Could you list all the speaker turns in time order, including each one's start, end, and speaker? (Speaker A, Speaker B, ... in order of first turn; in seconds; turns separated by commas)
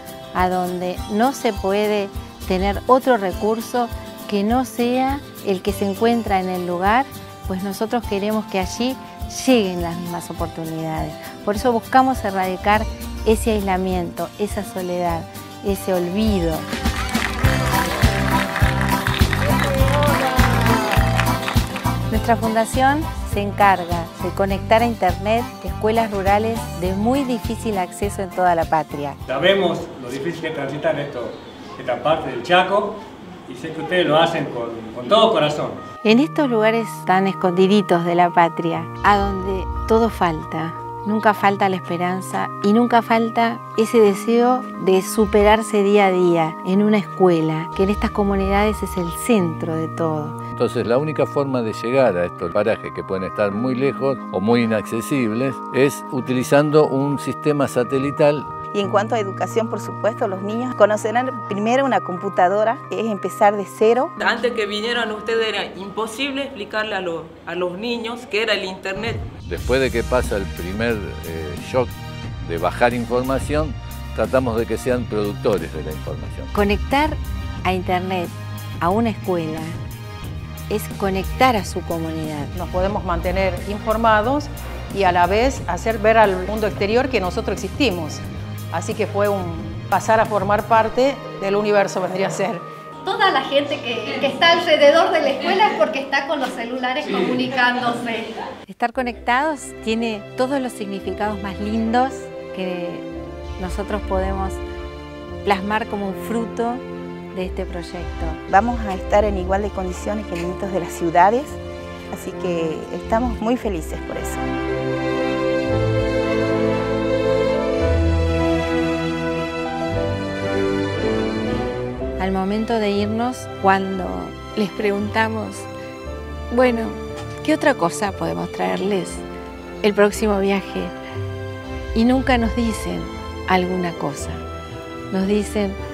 Speaker A: 0.3-16.7, Speaker A: 22.1-29.2, Speaker B: 29.3-35.8, Speaker A: 36.0-50.4, Speaker C: 50.5-58.5, Speaker D: 58.7-64.1, Speaker E: 64.2-69.3, Speaker C: 69.4-71.9, Speaker C: 72.4-76.5, Speaker A: 76.5-79.8, Speaker A: 80.7-82.5, Speaker F: 82.5-92.6, Speaker G: 93.0-98.4, Speaker A: 98.7-103.0, Speaker A: 103.6-104.6, Speaker A: 105.4-106.8, Speaker A: 107.3-108.4, Speaker D: 108.5-111.6, Speaker D: 112.1-114.4, Speaker A: 122.2-125.7, Speaker A: 126.5-129.2, Speaker A: 129.8-130.9, Speaker A: 131.9-134.4, Speaker A: 135.1-135.8